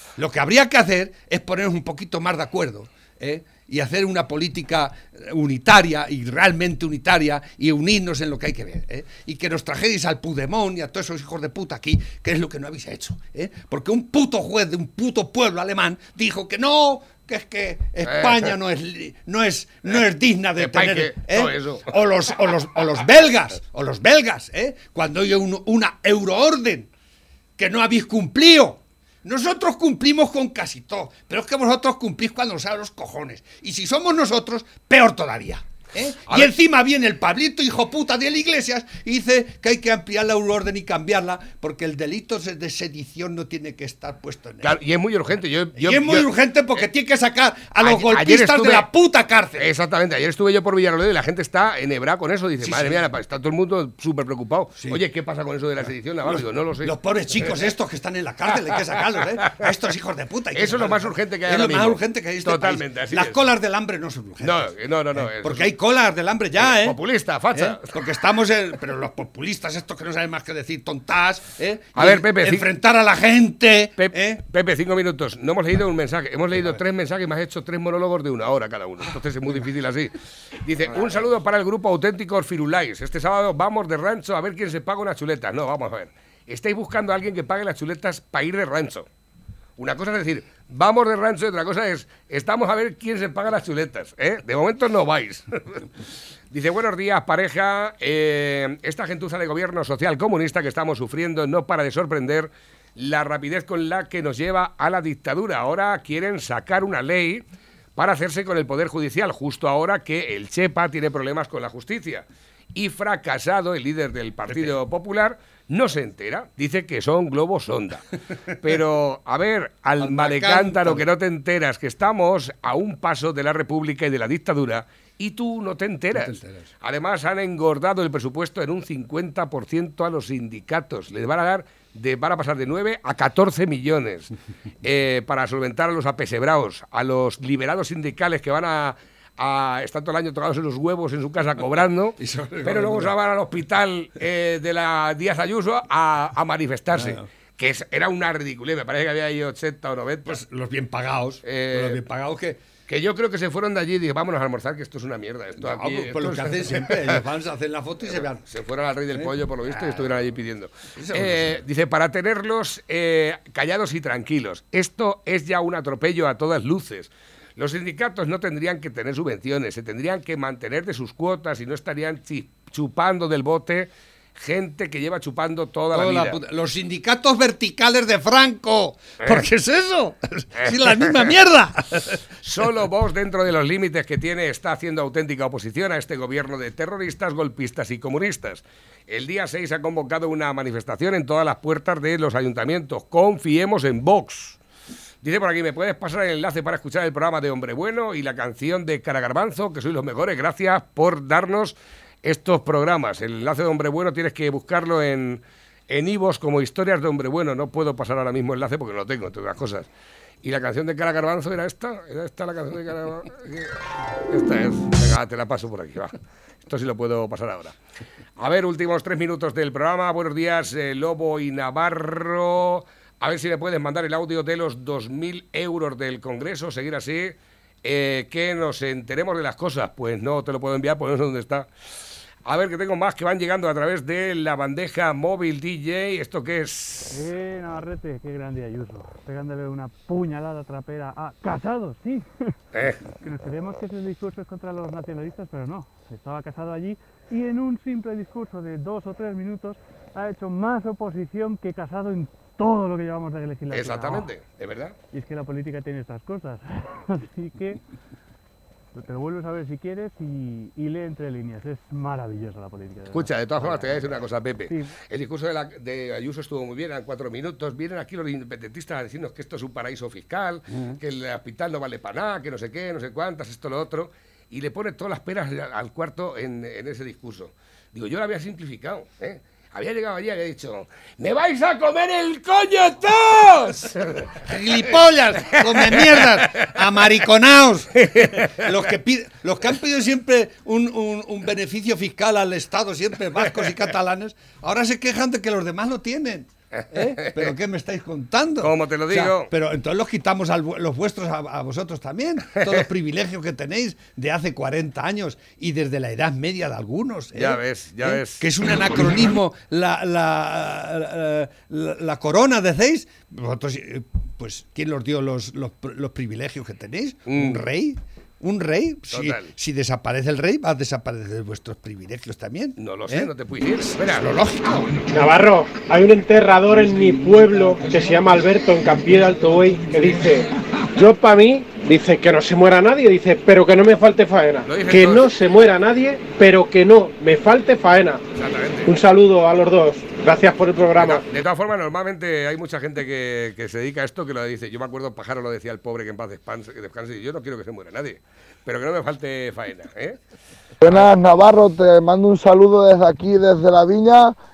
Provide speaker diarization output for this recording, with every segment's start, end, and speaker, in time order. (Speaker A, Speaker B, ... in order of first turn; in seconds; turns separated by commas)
Speaker A: 0.2-26.9, Speaker B: 18.0-18.5, Speaker B: 20.6-22.0, Speaker A: 27.6-44.8, Speaker B: 36.3-36.5, Speaker B: 44.6-46.3, Speaker A: 45.8-49.7, Speaker B: 47.8-48.9, Speaker B: 49.6-56.9, Speaker A: 52.6-53.0, Speaker A: 56.3-67.0, Speaker B: 60.5-63.4, Speaker B: 64.4-65.7, Speaker B: 66.6-67.8, Speaker A: 67.5-74.4, Speaker B: 72.0-72.7, Speaker B: 74.0-89.1, Speaker B: 89.8-95.9, Speaker B: 96.5-107.4, Speaker B: 108.0-134.3, Speaker A: 114.5-114.7, Speaker A: 120.0-121.0, Speaker A: 126.1-126.7, Speaker B: 134.8-150.4, Speaker A: 142.2-143.1, Speaker A: 146.9-147.2, Speaker A: 150.2-152.6, Speaker B: 151.4-152.0, Speaker B: 152.9-157.2, Speaker A: 155.6-158.4, Speaker B: 158.1-176.4, Speaker A: 159.1-161.6, Speaker A: 175.9-182.2, Speaker B: 180.6-181.3, Speaker B: 182.4-194.6, Speaker B: 195.2-209.9, Speaker B: 210.4-217.8, Speaker B: 218.4-231.7, Speaker B: 232.4-237.2, Speaker C: 237.1-242.3, Speaker B: 242.7-243.0, Speaker C: 243.2-254.3, Speaker B: 253.7-254.9, Speaker C: 255.1-257.8, Speaker C: 258.9-264.9, Speaker B: 263.1-284.9, Speaker A: 270.7-271.0, Speaker A: 284.4-325.0, Speaker B: 285.4-286.8, Speaker B: 288.0-288.7, Speaker B: 296.8-297.5, Speaker B: 298.6-299.5, Speaker B: 307.3-308.4, Speaker B: 317.3-317.6, Speaker B: 319.1-319.5, Speaker B: 322.8-324.4, Speaker D: 325.1-338.2, Speaker A: 327.0-327.4, Speaker B: 334.6-335.4, Speaker B: 338.3-338.9, Speaker D: 338.8-341.2, Speaker B: 341.0-350.2, Speaker B: 350.8-351.1, Speaker E: 350.8-354.3